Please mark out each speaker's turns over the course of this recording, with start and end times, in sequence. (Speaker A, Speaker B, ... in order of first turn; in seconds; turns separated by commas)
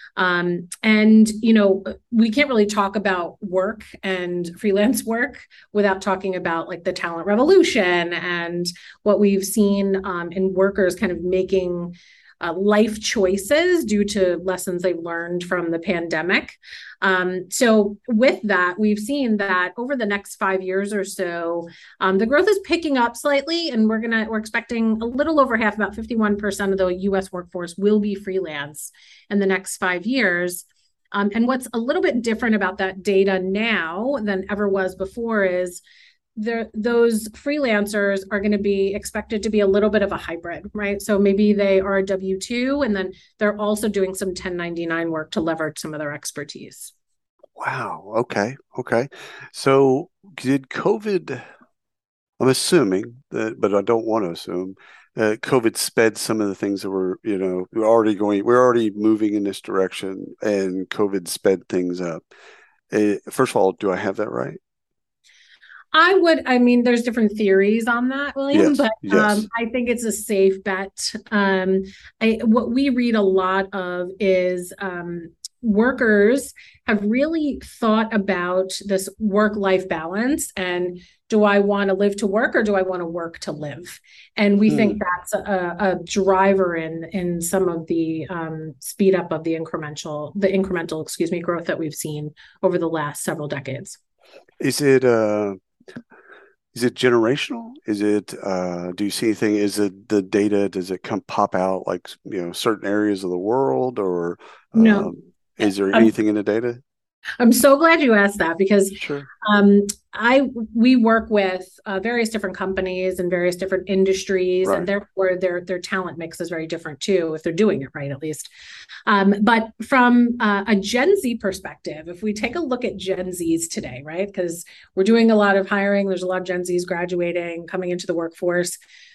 Speaker A: 0.1-35.8, Speaker A: 36.4-46.9, Speaker B: 47.6-51.5, Speaker B: 52.4-62.2, Speaker B: 62.9-64.6, Speaker A: 65.9-94.0, Speaker B: 68.5-69.5, Speaker B: 84.7-85.0, Speaker B: 94.6-95.6, Speaker B: 96.7-106.8, Speaker A: 104.7-105.1, Speaker A: 107.4-118.5, Speaker B: 109.0-109.3, Speaker A: 119.1-128.8